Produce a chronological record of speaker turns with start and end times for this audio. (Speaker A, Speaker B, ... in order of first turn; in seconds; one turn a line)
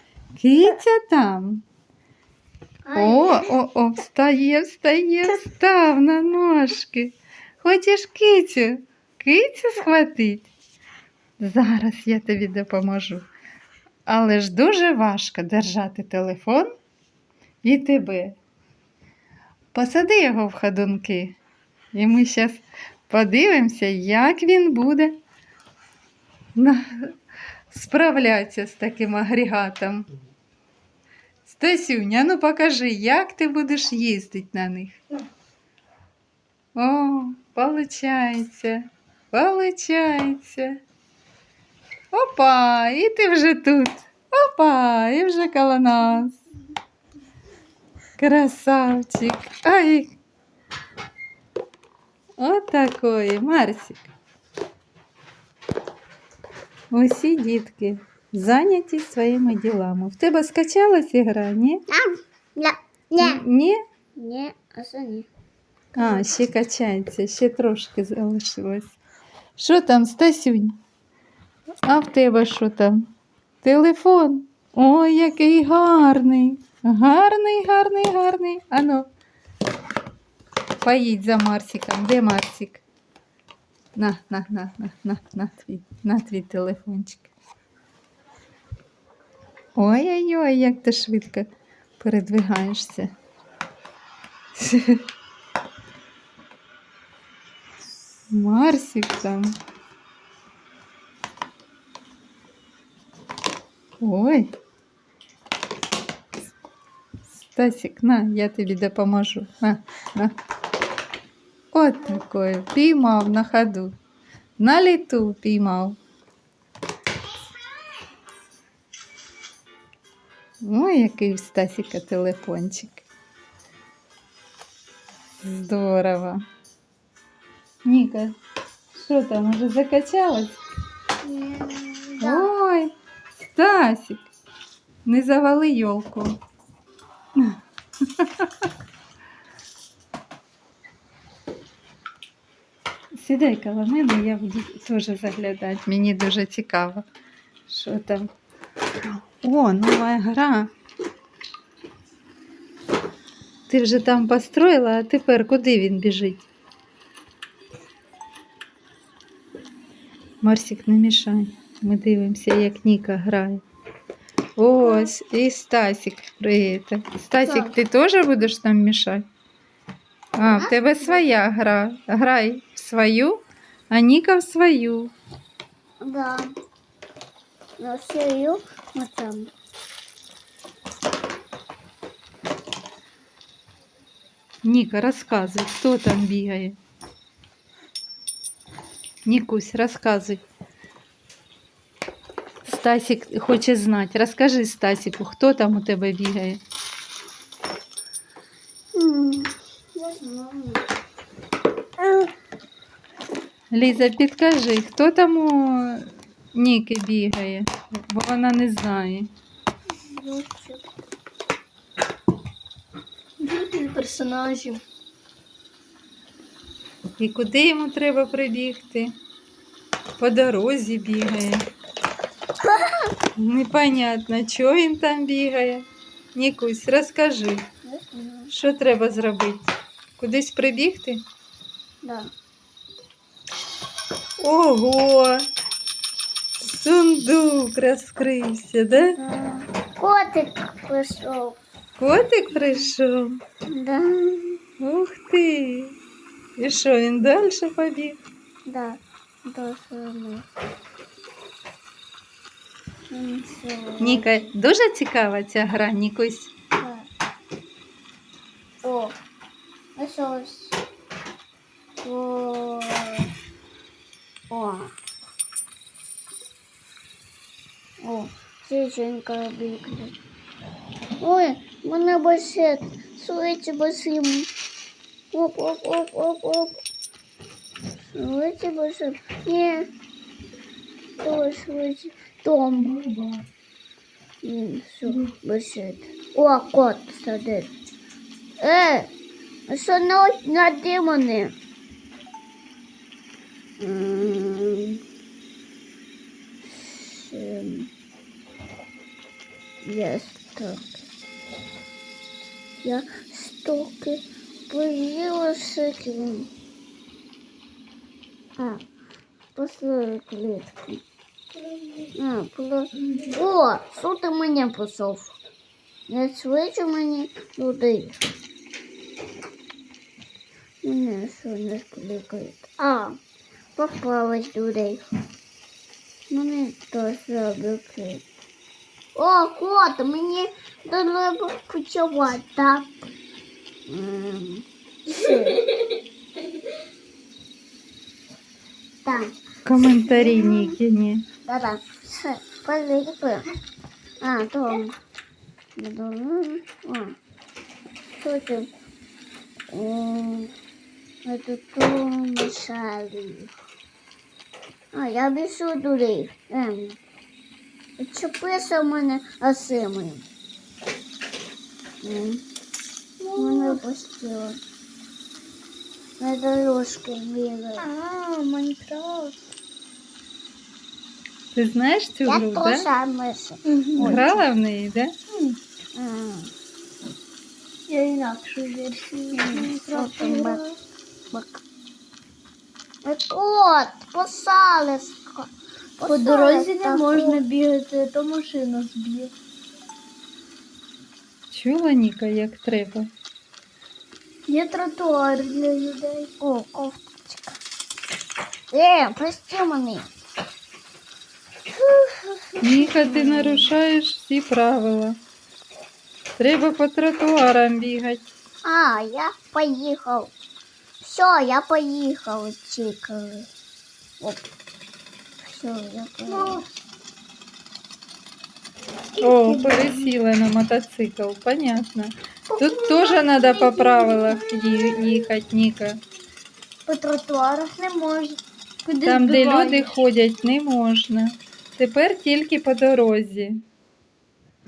Speaker A: 0.4-1.6
Speaker B: 2.8-3.4
Speaker A: 2.9-10.5
Speaker A: 11.4-13.2
Speaker A: 14.1-16.7
Speaker A: 17.6-18.4
Speaker A: 19.7-21.4
Speaker A: 21.9-25.1
Speaker A: 26.6-27.1
Speaker A: 27.7-30.1
Speaker A: 31.4-35.0
Speaker A: 36.8-40.8
Speaker A: 42.1-46.4
Speaker A: 48.2-50.1
Speaker A: 52.4-54.1
Speaker A: 56.9-61.8
Speaker B: 61.9-63.4
Speaker A: 63.2-63.8
Speaker B: 64.2-65.3
Speaker A: 66.0-68.9
Speaker A: 69.6-70.8
Speaker A: 71.9-73.1
Speaker A: 73.6-79.1
Speaker A: 80.8-82.8
Speaker A: 83.9-87.3
Speaker A: 89.8-91.5
Speaker A: 92.0-93.1
Speaker A: 94.5-95.0
Speaker A: 98.3-99.5
Speaker A: 104.0-104.5
Speaker A: 107.5-110.3
Speaker A: 111.7-113.9
Speaker A: 114.6-116.0
Speaker A: 120.6-123.0
Speaker A: 125.4-126.4
Speaker A: 127.8-128.3
Speaker A: 128.9-130.6
Speaker B: 131.2-132.5
Speaker A: 132.2-134.2
Speaker A: 135.0-136.3
Speaker A: 138.2-138.7
Speaker A: 143.2-147.0
Speaker A: 147.7-148.3
Speaker A: 149.0-150.7
Speaker A: 153.7-156.5
Speaker A: 160.4-163.6
Speaker A: 164.6-169.3
Speaker B: 164.8-165.1
Speaker B: 167.4-167.7
Speaker A: 170.3-175.1
Speaker B: 170.5-171.2
Speaker B: 176.0-176.5
Speaker B: 177.8-179.5
Speaker A: 184.6-186.8
Speaker A: 189.3-190.4
Speaker A: 192.7-196.6
Speaker B: 198.9-200.8
Speaker A: 203.7-209.3
Speaker B: 210.0-210.8
Speaker C: 213.4-214.8
Speaker A: 217.2-219.1
Speaker A: 220.2-221.7
Speaker A: 223.4-227.7
Speaker B: 227.8-228.5
Speaker A: 228.5-231.2
Speaker B: 232.0-232.3
Speaker A: 234.4-235.4
Speaker A: 236.6-239.2
Speaker B: 238.9-241.6
Speaker A: 242.0-243.4
Speaker B: 243.7-244.6
Speaker A: 244.8-245.9
Speaker A: 246.6-248.2
Speaker B: 248.7-250.5
Speaker B: 253.1-254.5
Speaker A: 254.0-256.5
Speaker B: 256.8-257.1
Speaker B: 258.8-259.2
Speaker B: 260.0-260.8
Speaker B: 262.0-263.3
Speaker B: 264.5-264.9
Speaker B: 268.0-270.1
Speaker B: 271.2-274.5
Speaker B: 275.3-276.8
Speaker B: 278.1-279.9
Speaker B: 281.2-283.0
Speaker C: 282.9-283.4
Speaker B: 284.4-287.7
Speaker B: 288.6-289.1
Speaker B: 289.7-291.5
Speaker B: 293.8-295.0
Speaker B: 296.6-297.9
Speaker B: 299.9-301.0
Speaker B: 302.8-306.5
Speaker B: 309.6-311.0
Speaker C: 311.6-312.1
Speaker B: 312.2-315.3
Speaker B: 316.1-318.2
Speaker B: 320.8-323.2
Speaker B: 323.8-325.0
Speaker B: 326.3-328.2
Speaker B: 329.1-332.9
Speaker B: 333.9-335.7
Speaker B: 339.0-339.3
Speaker A: 339.6-341.2
Speaker B: 340.1-340.7
Speaker B: 341.4-343.4
Speaker B: 344.2-344.9
Speaker B: 345.8-347.1
Speaker B: 348.2-348.7
Speaker B: 349.7-350.5
Speaker B: 351.2-353.5
Speaker B: 354.9-357.0
Speaker B: 358.0-360.2
Speaker B: 362.0-362.4
Speaker C: 363.2-363.8
Speaker B: 363.4-364.6
Speaker B: 366.2-367.9
Speaker C: 367.8-369.4
Speaker A: 371.5-372.9
Speaker B: 372.2-374.4
Speaker C: 373.6-374.3
Speaker A: 374.0-375.1
Speaker C: 375.3-375.6
Speaker B: 375.9-376.5
Speaker C: 377.9-380.8
Speaker B: 379.3-380.6
Speaker B: 381.3-381.6
Speaker B: 383.0-387.4
Speaker C: 386.0-389.3
Speaker A: 391.5-393.1
Speaker C: 394.5-396.3
Speaker B: 396.4-397.6
Speaker B: 398.7-400.1
Speaker A: 402.6-405.2
Speaker C: 402.9-403.6
Speaker A: 406.4-408.2
Speaker B: 408.6-410.3
Speaker B: 411.0-413.5
Speaker B: 414.2-414.5
Speaker B: 415.4-416.6
Speaker C: 416.3-416.6
Speaker C: 419.1-420.1
Speaker A: 419.2-426.0
Speaker C: 422.5-424.4
Speaker C: 426.9-430.0
Speaker A: 429.0-433.6